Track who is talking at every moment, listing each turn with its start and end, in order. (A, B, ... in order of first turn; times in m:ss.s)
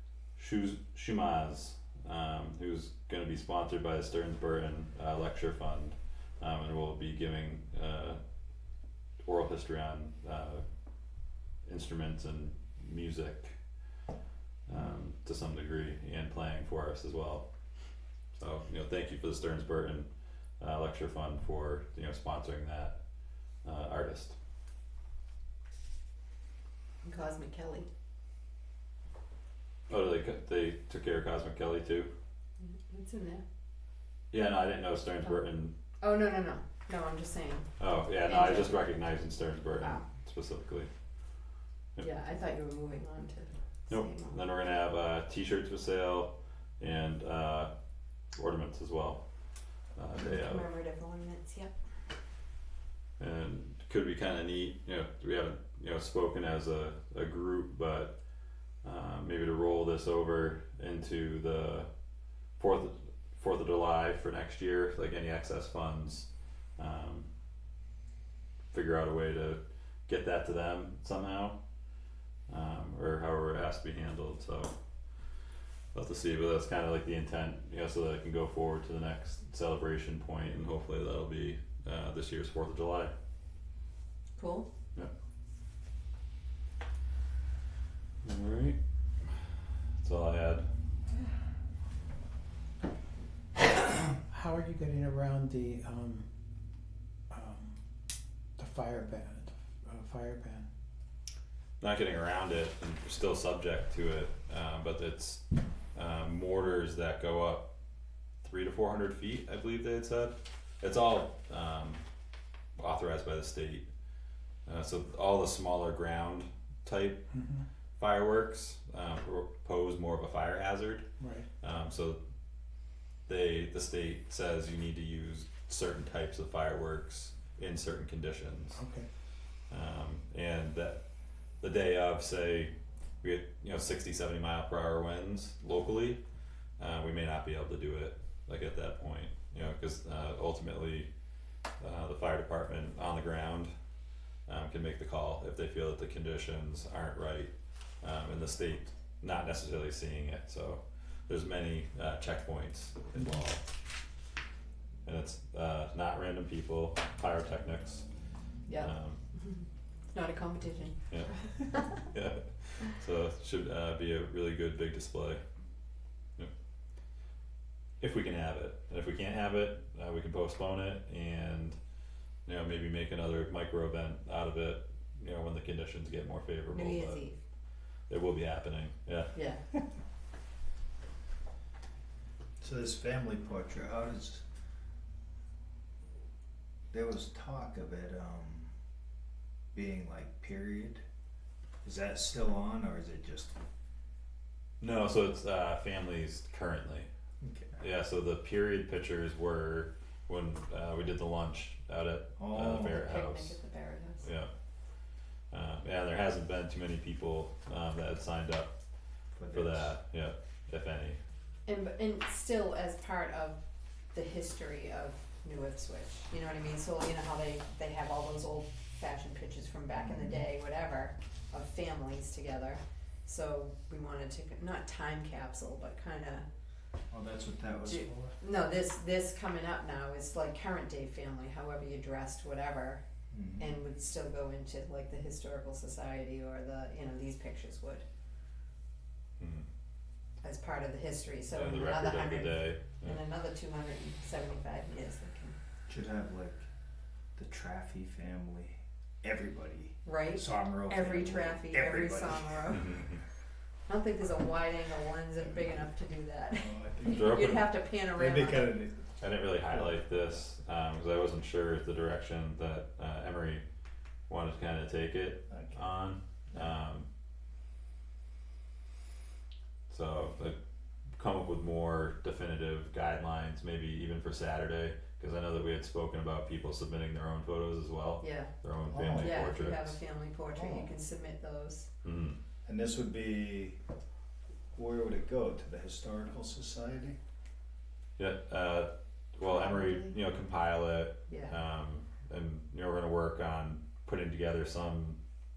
0:00.4-0:08.2 A
0:09.2-0:10.6 A
0:11.6-0:13.6 A
0:14.7-0:17.5 A
0:18.4-0:20.1 A
0:20.6-0:23.0 A
0:23.6-0:24.4 A
0:27.0-0:27.9 B
0:29.9-0:32.1 A
0:32.6-0:33.4 B
0:34.3-0:35.7 A
0:36.0-0:37.7 B
0:37.8-0:40.9 A
0:38.2-0:38.8 B
0:42.0-0:44.4 B
0:43.9-0:47.7 A
0:48.3-0:49.2 A
0:50.0-0:50.6 A
0:50.2-0:51.7 B
0:53.2-0:58.2 A
0:58.8-1:01.9 A
1:02.6-1:07.3 A
1:08.7-1:11.6 A
1:12.5-1:14.7 A
1:15.9-1:23.1 A
1:24.4-1:24.7 B
1:28.2-1:29.3 A
1:30.0-1:30.7 A
1:33.8-1:36.3 C
1:37.3-1:37.8 C
1:38.6-1:40.7 C
1:41.8-1:45.4 A
1:45.9-1:47.7 A
1:48.4-1:52.0 A
1:52.8-1:53.9 A
1:54.6-1:57.2 A
1:57.3-1:57.6 C
1:58.0-2:01.0 A
2:01.2-2:01.4 C
2:01.6-2:02.2 A
2:03.3-2:08.8 A
2:08.7-2:09.1 C
2:09.7-2:11.0 A
2:11.6-2:16.2 A
2:16.8-2:21.1 A
2:21.8-2:23.7 A
2:24.5-2:33.6 A
2:35.0-2:38.0 A
2:38.7-2:39.6 B
2:38.8-2:39.2 A
2:40.1-2:42.0 B
2:41.9-2:45.4 A
2:48.0-2:51.8 A
2:52.4-2:57.2 A
2:56.7-2:57.4 B
2:58.1-2:59.3 A
2:59.3-2:59.6 B
3:02.6-3:04.4 D
3:06.9-3:08.7 D
3:09.7-3:11.0 D
3:11.8-3:13.5 D
3:14.8-3:17.1 A
3:17.4-3:17.8 D
3:17.8-3:23.6 A
3:22.4-3:23.0 D
3:22.7-3:24.3 B
3:24.2-3:24.5 A
3:25.5-3:28.7 A
3:29.3-3:29.9 D
3:29.5-3:31.2 A
3:31.6-3:33.6 B
3:34.1-3:46.4 B
3:39.9-3:40.4 D
3:47.1-3:48.3 D
3:47.8-3:53.0 B
3:53.3-3:53.8 D
3:53.6-3:58.0 B
3:59.4-3:59.7 A
4:00.4-4:05.5 B
4:01.5-4:03.2 A
4:05.9-4:06.7 D
4:07.4-4:12.9 D
4:10.0-4:12.9 B
4:12.7-4:13.2 A
4:13.9-4:18.7 B
4:16.5-4:20.0 D
4:17.0-4:17.7 A
4:19.2-4:23.6 A
4:24.3-4:27.1 A
4:25.5-4:25.8 D
4:29.9-4:30.6 A
4:31.2-4:40.0 A
4:38.2-4:38.5 B
4:38.9-4:39.4 D
4:39.1-4:41.9 B
4:40.5-4:40.9 D
4:42.0-4:42.4 A
4:42.6-4:43.8 D
4:44.7-4:47.2 D
4:48.2-4:55.2 A
4:49.4-4:50.1 B
4:51.3-4:51.6 B